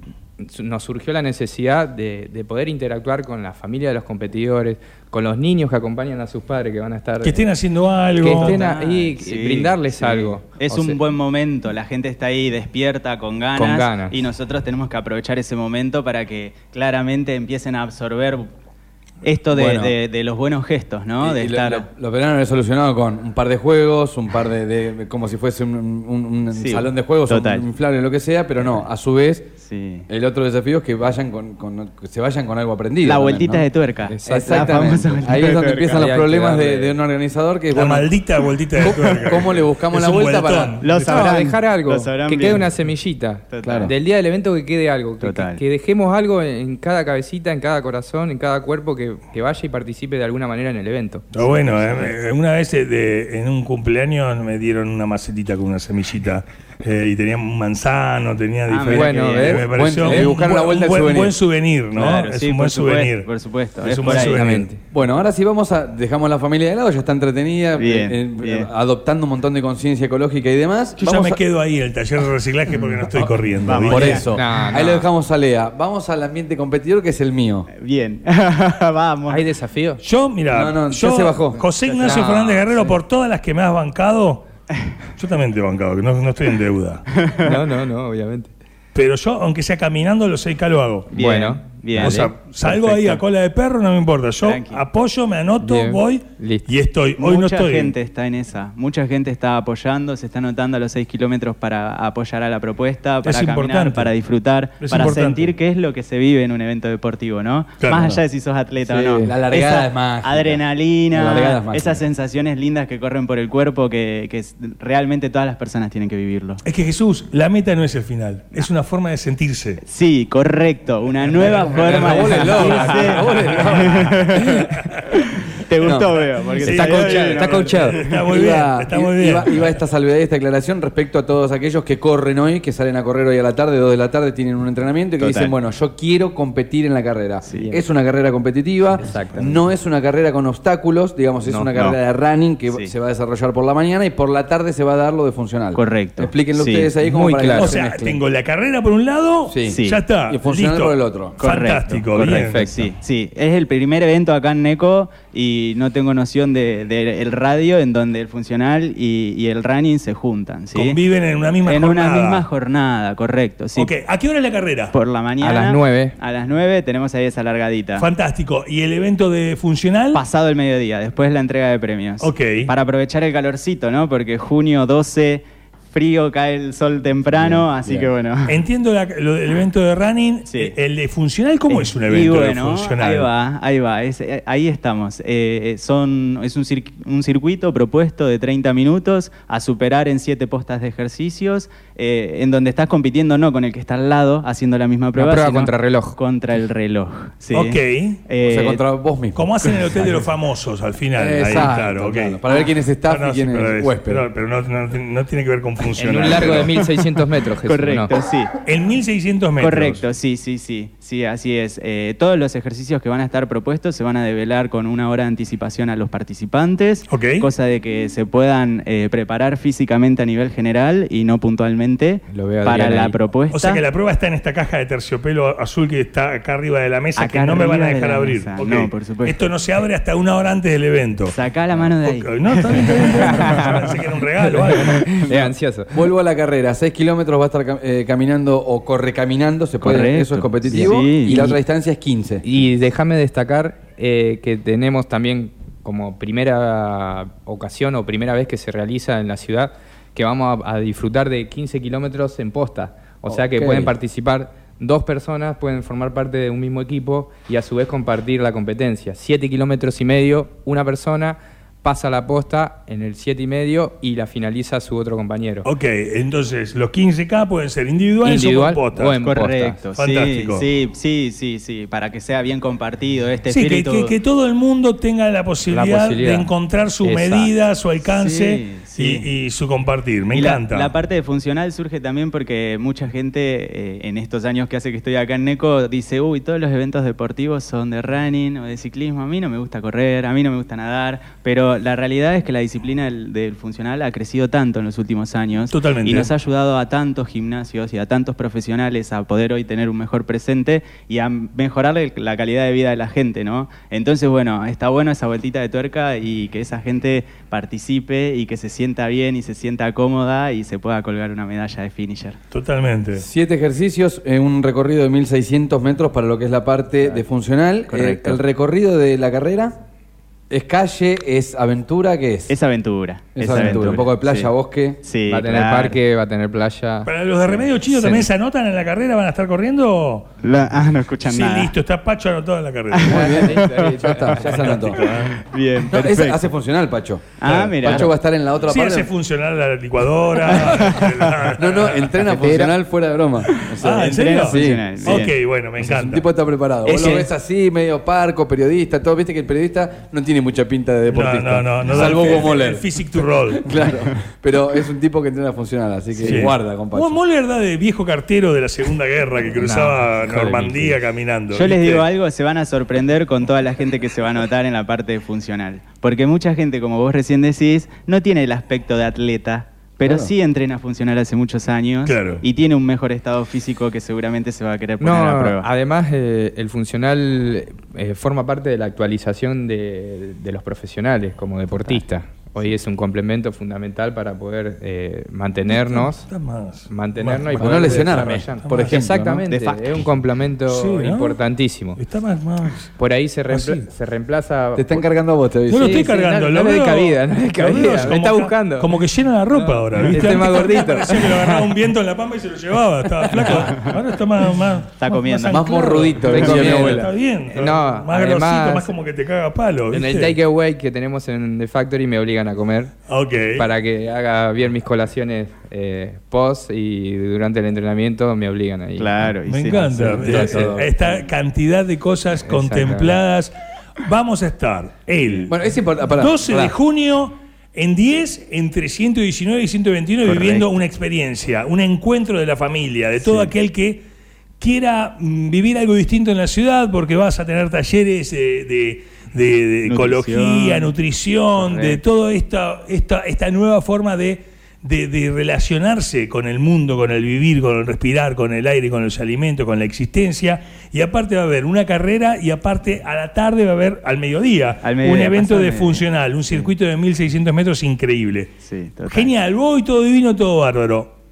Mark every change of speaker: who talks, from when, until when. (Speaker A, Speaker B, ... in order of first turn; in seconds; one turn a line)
Speaker A: 0.4-7.5
Speaker B: 7.2-8.6
Speaker A: 8.2-11.0
Speaker C: 8.2-18.5
Speaker A: 13.5-14.2
Speaker C: 19.2-21.9
Speaker D: 19.5-19.9
Speaker D: 21.2-29.5
Speaker C: 26.5-27.6
Speaker C: 29.6-30.1
Speaker D: 30.1-33.6
Speaker C: 33.0-36.1
Speaker A: 34.1-37.0
Speaker D: 34.2-38.1
Speaker B: 37.7-41.2
Speaker D: 38.8-40.8
Speaker C: 38.8-39.2
Speaker C: 40.8-42.7
Speaker A: 41.0-52.0
Speaker C: 43.5-43.9
Speaker D: 43.6-43.9
Speaker C: 45.2-45.6
Speaker B: 51.3-63.3
Speaker C: 58.7-59.9
Speaker A: 58.9-60.3
Speaker D: 59.7-61.3
Speaker C: 61.9-64.5
Speaker B: 63.8-64.7
Speaker A: 64.1-64.8
Speaker D: 64.9-71.4
Speaker C: 67.8-68.7
Speaker B: 71.0-74.2
Speaker C: 73.6-74.3
Speaker D: 73.8-77.7
Speaker A: 74.3-75.1
Speaker C: 77.8-79.4
Speaker A: 79.3-80.0
Speaker B: 80.0-84.5
Speaker D: 80.5-81.6
Speaker C: 81.8-82.2
Speaker A: 82.0-83.0
Speaker B: 85.2-87.0
Speaker C: 87.2-87.6
Speaker A: 87.4-88.5
Speaker B: 88.9-91.1
Speaker A: 91.1-93.2
Speaker C: 91.1-92.3
Speaker B: 92.0-97.9
Speaker C: 94.4-94.8
Speaker A: 95.6-96.7
Speaker C: 97.2-116.6
Speaker B: 103.2-104.1
Speaker B: 104.8-105.5
Speaker B: 107.8-108.1
Speaker D: 108.8-112.0
Speaker B: 116.6-119.8
Speaker C: 119.8-128.3
Speaker B: 121.3-122.9
Speaker D: 121.6-124.3
Speaker A: 122.5-123.2
Speaker D: 125.8-126.2
Speaker B: 126.6-129.5
Speaker A: 126.6-128.0
Speaker D: 128.1-148.2
Speaker C: 135.2-135.5
Speaker C: 137.4-137.8
Speaker A: 139.0-139.6
Speaker A: 141.4-142.0
Speaker C: 145.7-147.0
Speaker A: 147.0-147.9
Speaker B: 147.5-152.7
Speaker D: 149.5-151.4
Speaker C: 149.6-150.0
Speaker C: 151.4-161.0
Speaker A: 152.2-152.9
Speaker B: 160.7-162.4
Speaker C: 161.6-163.9
Speaker B: 163.8-164.9
Speaker C: 164.9-168.1
Speaker A: 165.4-166.2
Speaker B: 168.0-170.2
Speaker C: 170.1-178.6
Speaker B: 172.2-172.7
Speaker A: 177.4-178.1
Speaker B: 178.5-183.3
Speaker C: 180.4-180.8
Speaker C: 181.7-198.8
Speaker A: 195.2-196.2
Speaker B: 197.5-198.2
Speaker D: 198.4-199.4
Speaker B: 199.3-202.4
Speaker D: 201.2-204.2
Speaker C: 202.5-202.7
Speaker B: 203.0-206.7
Speaker A: 206.0-208.1
Speaker C: 206.3-208.5
Speaker B: 208.6-210.0
Speaker C: 209.6-223.8
Speaker B: 217.1-217.5
Speaker A: 222.3-223.2
Speaker B: 223.5-231.3
Speaker C: 227.2-229.5
Speaker C: 231.2-233.9
Speaker B: 232.0-235.1
Speaker A: 233.1-233.9
Speaker A: 234.7-236.0
Speaker C: 235.0-235.5
Speaker D: 235.9-242.4
Speaker C: 239.8-241.5
Speaker A: 240.7-241.6
Speaker A: 242.4-265.7
Speaker D: 253.3-253.9
Speaker B: 265.6-269.1
Speaker A: 268.2-269.8
Speaker C: 269.2-274.1
Speaker B: 269.9-270.6
Speaker B: 273.5-280.9
Speaker A: 275.7-277.5
Speaker C: 278.0-279.3
Speaker C: 280.3-312.4
Speaker B: 295.7-296.3
Speaker B: 312.5-313.2
Speaker D: 313.2-319.7
Speaker C: 317.9-318.4
Speaker D: 320.5-322.5
Speaker C: 322.5-326.0
Speaker D: 323.4-325.0
Speaker A: 325.3-327.1
Speaker B: 327.0-330.3
Speaker A: 327.9-328.2
Speaker C: 330.4-331.7
Speaker B: 331.2-333.2
Speaker C: 332.9-334.6
Speaker D: 333.1-335.0
Speaker A: 333.1-335.0
Speaker B: 334.6-335.4
Speaker C: 335.2-336.4
Speaker D: 335.9-339.1
Speaker C: 337.4-338.1
Speaker B: 337.4-338.0
Speaker B: 338.6-342.1
Speaker C: 340.4-341.3
Speaker D: 341.6-357.2
Speaker C: 342.4-342.7
Speaker C: 343.6-345.3
Speaker B: 343.8-346.2
Speaker C: 346.8-347.3
Speaker B: 351.1-353.7
Speaker B: 356.2-362.1
Speaker A: 359.6-361.0
Speaker C: 361.5-375.7
Speaker D: 370.0-370.3
Speaker B: 372.0-372.4
Speaker A: 375.0-386.3
Speaker B: 385.7-388.9
Speaker A: 386.9-392.0
Speaker D: 387.6-389.4
Speaker C: 389.4-390.1
Speaker B: 390.7-391.4
Speaker B: 391.9-392.9
Speaker A: 393.0-395.1
Speaker B: 393.5-393.9
Speaker D: 394.7-396.1
Speaker B: 395.7-410.4
Speaker A: 395.7-398.9
Speaker A: 399.5-401.7
Speaker C: 403.5-403.9
Speaker C: 405.0-406.2
Speaker D: 405.5-407.1
Speaker A: 406.2-408.9
Speaker A: 409.9-412.9
Speaker B: 413.1-413.7
Speaker A: 413.5-420.8
Speaker C: 419.0-420.7
Speaker B: 419.4-425.6
Speaker D: 420.1-420.9
Speaker A: 422.4-423.2
Speaker D: 425.5-426.7
Speaker B: 426.1-434.1
Speaker C: 430.2-430.6
Speaker D: 433.2-433.5
Speaker B: 434.6-461.1
Speaker C: 439.9-440.9
Speaker C: 441.5-442.0
Speaker C: 454.8-456.7
Speaker C: 458.6-459.3